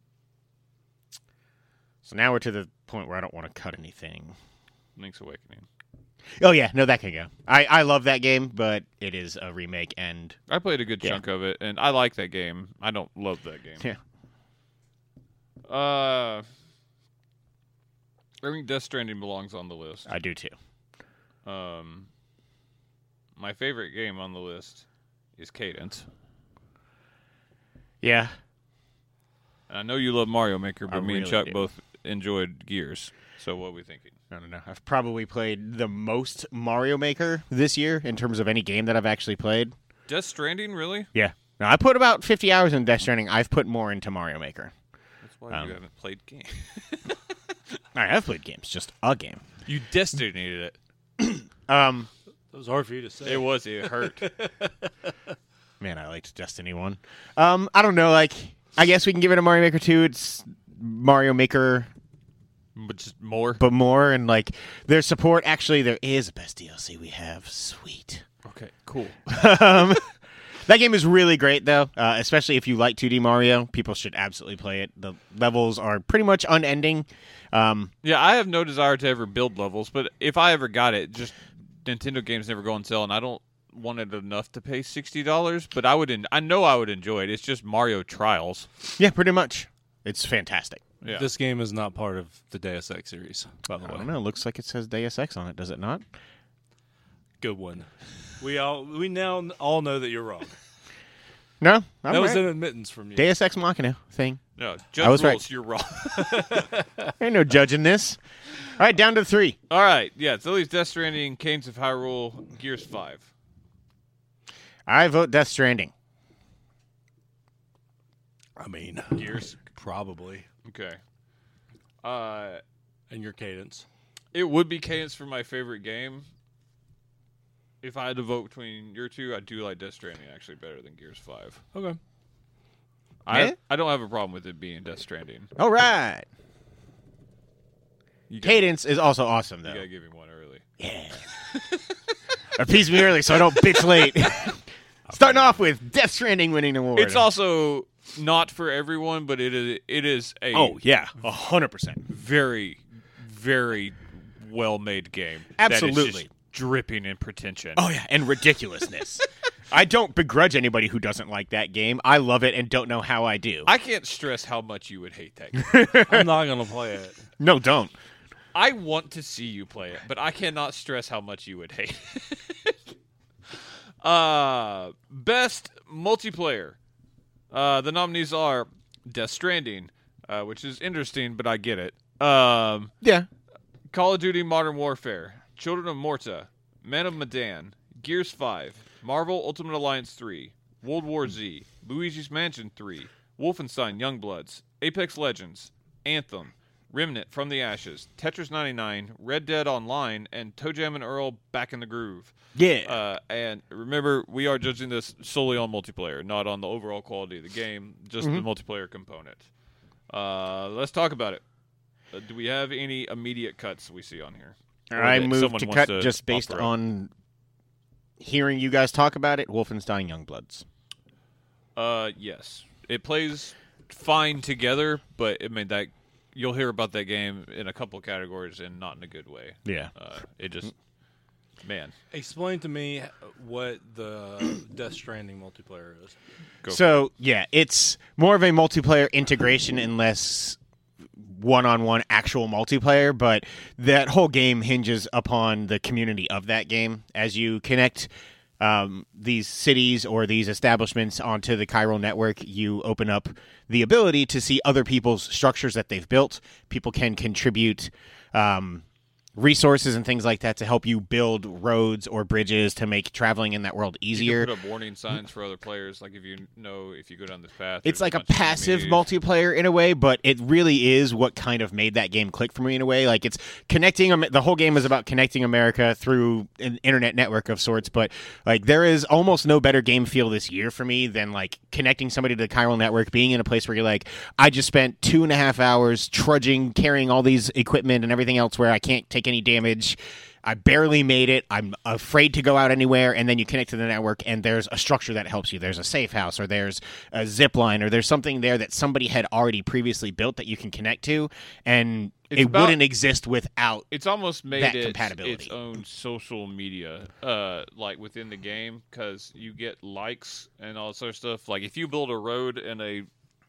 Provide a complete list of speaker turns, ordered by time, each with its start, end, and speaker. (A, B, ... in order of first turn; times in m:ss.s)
0:02.0-0:04.3 A
0:05.0-0:05.6 B
0:06.4-0:10.4 A
0:10.5-0:13.8 B
0:15.7-0:16.4 B
0:18.4-0:20.1 B
0:20.1-0:20.5 A
0:21.4-0:22.1 B
0:23.4-0:24.8 B
0:25.4-0:26.0 B
0:28.0-0:28.3 A
0:29.7-0:34.1 B
0:30.9-0:31.6 A
0:34.3-0:39.7 A
0:40.1-0:41.1 B
0:41.1-0:44.7 A
0:45.2-0:47.2 B
0:45.5-0:45.8 A
0:47.9-0:49.4 A
0:49.6-0:50.8 B
0:51.2-0:52.1 A
0:52.5-0:54.9 C
0:53.2-0:54.3 B
0:55.8-1:01.9 A
1:02.7-1:03.6 B
1:03.6-1:08.2 A
1:08.4-1:09.9 B
1:09.3-1:10.0 A
1:10.6-1:17.9 A
1:18.0-1:28.7 B
1:29.0-1:30.8 A
1:31.0-1:31.3 B
1:31.1-1:34.0 C
1:33.7-1:36.0 A
1:37.4-1:37.9 C
1:38.4-1:40.5 C
1:41.6-1:42.5 A
1:42.1-1:43.3 C
1:43.2-1:44.4 A
1:44.6-1:46.6 B
1:45.0-1:45.4 A
1:46.1-1:47.1 C
1:47.2-1:48.2 A
1:48.8-1:49.6 A
1:49.7-1:53.3 B
1:54.9-1:55.9 A
1:58.6-2:00.4 C
1:59.1-1:59.5 B
2:00.6-2:01.0 B
2:02.0-2:02.6 B
2:03.1-2:03.8 C
2:04.3-2:06.2 B
2:07.8-2:11.6 B
2:11.7-2:12.0 C
2:13.2-2:15.5 B
2:13.3-2:13.6 A
2:15.6-2:16.2 A
2:18.3-2:18.6 B
2:18.4-2:19.8 A
2:19.6-2:20.6 B
2:20.8-2:21.2 A
2:21.5-2:21.8 B
2:22.5-2:27.3 A
2:23.4-2:24.3 B
2:26.9-2:30.8 B
2:30.5-2:32.0 A
2:32.1-2:37.8 B
2:35.6-2:36.3 A
2:37.8-2:43.7 A
2:43.6-2:45.8 B
2:45.6-2:46.3 A
2:46.1-2:47.2 C
2:47.4-2:47.9 A
2:48.5-2:52.8 B
2:54.0-2:56.8 B
2:57.5-3:02.9 B
3:03.0-3:03.3 A
3:03.9-3:29.5 B
3:22.5-3:23.0 A
3:30.1-3:31.4 B
3:32.1-3:36.7 B
3:34.9-3:37.1 A
3:38.2-3:40.6 A
3:41.8-3:50.7 B
3:49.6-3:49.9 A
3:51.6-3:51.9 B
3:52.1-3:56.2 C
3:56.7-4:00.6 A
4:01.2-4:18.8 A
4:19.4-4:24.5 A
4:24.1-4:29.0 B
4:27.8-5:03.8 A
5:02.3-5:02.8 B
5:03.9-5:13.1 B
5:04.5-5:05.5 A